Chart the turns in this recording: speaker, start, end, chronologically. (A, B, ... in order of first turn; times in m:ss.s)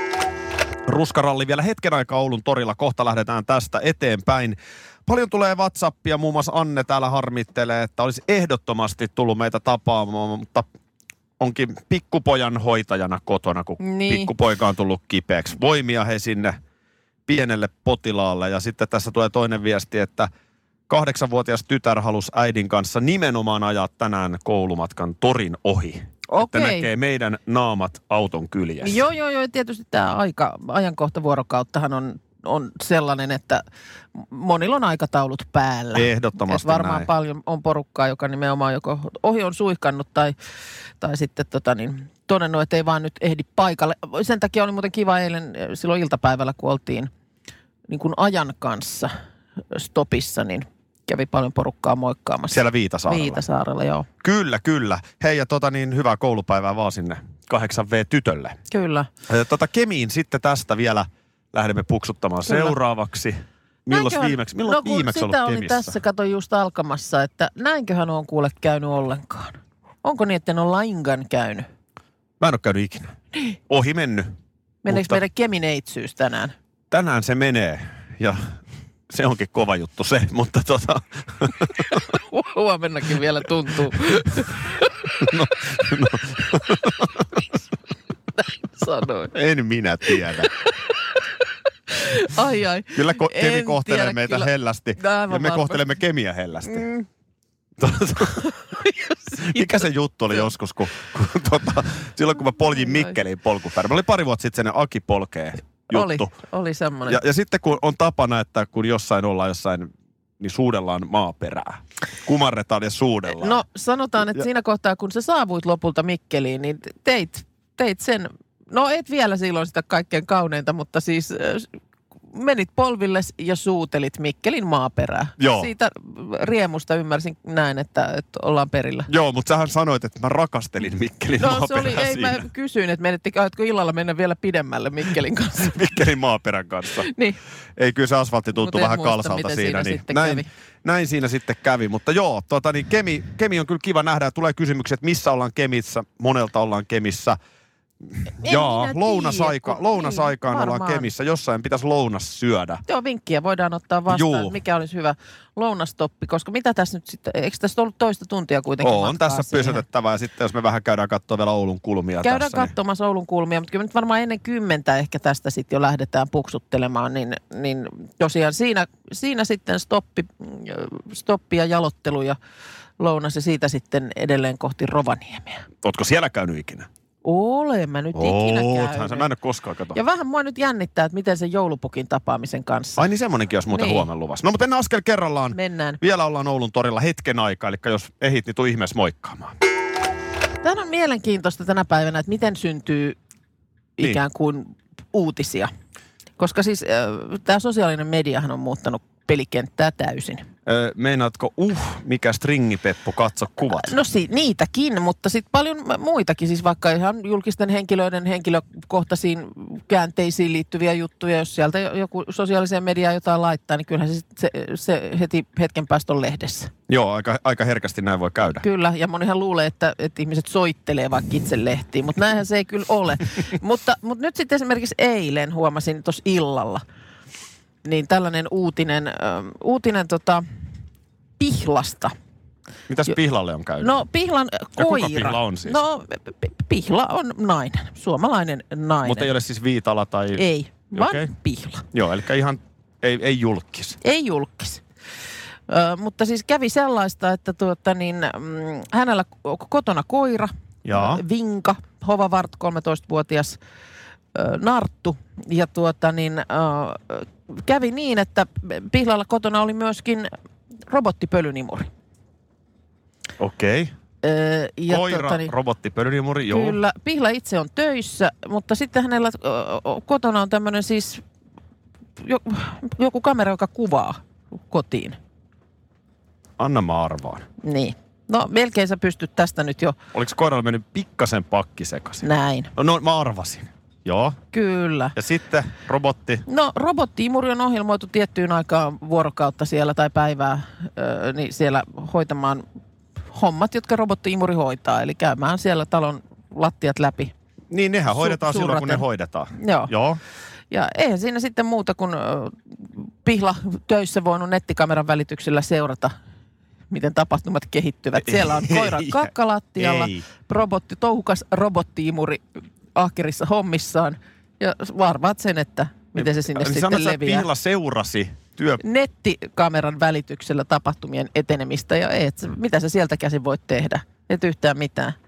0:00.9-0:10.7 A
0:11.4-0:16.6 A
0:13.8-0:14.3 B
0:17.3-0:20.3 A
0:20.9-0:29.0 A
0:26.3-0:26.9 B
0:28.8-0:33.6 B
0:34.2-0:40.4 B
0:35.9-0:37.1 A
0:41.0-0:47.1 B
0:47.9-0:49.1 B
0:49.7-0:54.1 B
0:52.5-0:53.4 A
0:54.2-0:58.6 A
0:58.7-0:59.1 B
0:59.3-1:06.0 A
1:02.5-1:02.8 B
1:03.9-1:11.7 B
1:12.4-1:13.2 A
1:13.7-1:14.4 A
1:14.8-1:16.6 B
1:14.9-1:15.2 A
1:16.9-1:18.6 A
1:19.1-1:22.0 A
1:22.1-1:24.9 B
1:23.9-1:24.4 A
1:25.2-1:27.3 A
1:28.4-1:29.3 B
1:29.3-1:30.5 A
1:31.9-1:35.8 B
1:32.9-1:36.9 A
1:36.7-1:37.1 B
1:37.8-1:38.5 A
1:38.5-1:40.5 B
1:39.4-1:46.3 A
1:42.9-1:43.1 B
1:45.9-1:47.2 B
1:47.1-1:53.6 A
1:53.4-2:01.7 B
2:02.3-2:09.1 B
2:05.4-2:05.7 A
2:09.1-2:12.5 A
2:11.4-2:15.8 B
2:15.6-2:17.1 A
2:17.0-2:17.4 B
2:17.8-2:27.4 A
2:18.6-2:20.5 B
2:28.0-2:32.8 A
2:28.4-2:31.1 B
2:32.9-2:39.8 B
2:34.1-2:34.6 A
2:38.8-2:42.7 A
2:42.2-2:52.4 B
2:53.0-2:55.6 B
2:55.8-2:56.9 A
2:57.2-2:59.3 B
2:58.1-3:00.0 A
2:59.9-3:03.0 B
3:03.0-3:09.6 A
3:03.7-3:04.1 B
3:05.5-3:06.0 B
3:10.6-3:13.2 B
3:14.0-3:15.7 B
3:16.4-3:20.5 B
3:20.7-3:24.0 A
3:23.7-3:36.7 B
3:36.9-3:38.6 A
3:38.6-3:46.8 B
3:47.8-3:50.4 B
3:51.4-3:52.1 B
3:52.9-3:54.0 A
3:53.8-3:59.3 B
3:54.8-3:55.8 A
3:59.0-4:01.3 A
4:00.3-4:01.8 B
4:01.9-4:04.0 A
4:04.0-4:04.8 B
4:05.7-4:13.6 B
4:10.8-4:11.2 A
4:14.3-4:20.3 B
4:20.9-4:21.9 B
4:23.4-4:23.9 A
4:24.2-4:25.5 B
4:24.9-4:26.8 A
4:26.5-4:31.2 B
4:32.2-4:35.2 B
4:36.6-4:37.5 A
4:37.6-4:40.0 B
4:40.1-4:44.4 A
4:42.2-4:42.7 B
4:44.5-4:45.2 B
4:45.2-4:46.4 A
4:46.5-4:52.6 B
4:53.3-4:57.3 B
4:57.7-5:00.2 A
4:58.1-4:59.0 B
4:59.6-4:59.9 B
5:00.7-5:06.1 B
5:06.9-5:17.5 B
5:08.2-5:10.2 A
5:16.2-5:18.8 A
5:18.8-5:25.2 B